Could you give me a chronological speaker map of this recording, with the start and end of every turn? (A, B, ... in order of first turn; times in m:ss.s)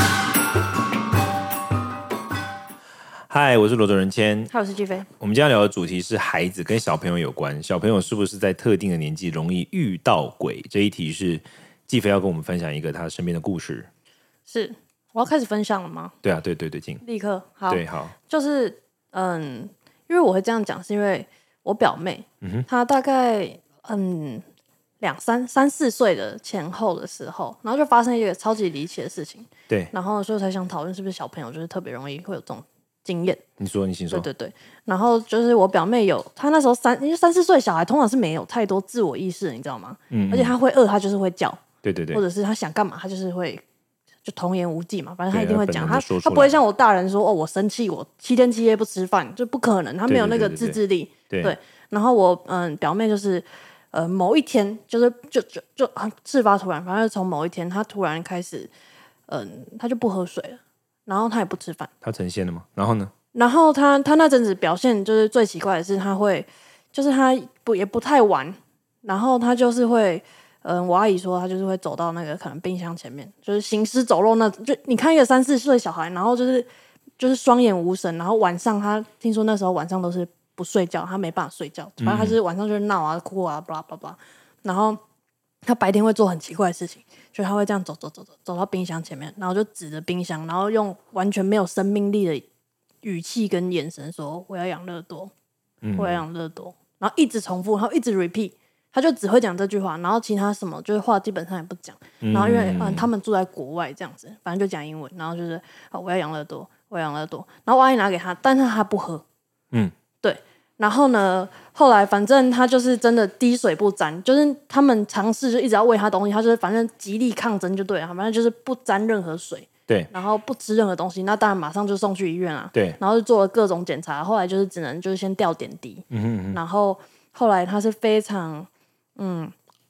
0:03.3-0:04.5 A
0:04.5-0:05.1 B
0:05.2-0:13.9 A
0:14.5-0:16.1 B
0:16.2-0:17.0 A
0:17.0-0:24.4 B
0:17.7-0:18.1 A
0:22.4-0:22.7 A
0:25.0-0:33.4 B
0:33.6-0:34.3 A
0:34.1-0:43.6 B
0:40.1-0:40.5 A
0:41.8-0:42.2 A
0:44.2-0:58.7 B
0:45.3-0:46.5 A
0:50.1-0:51.5 A
0:59.3-1:01.9 B
1:02.0-1:03.1 A
1:03.3-1:16.7 B
1:17.2-1:25.0 B
1:22.0-1:22.4 A
1:25.6-1:32.4 B
1:33.0-1:35.3 B
1:35.8-1:36.2 A
1:36.0-1:49.2 B
1:42.2-1:43.1 A
1:50.2-2:09.5 B
2:06.1-2:06.6 A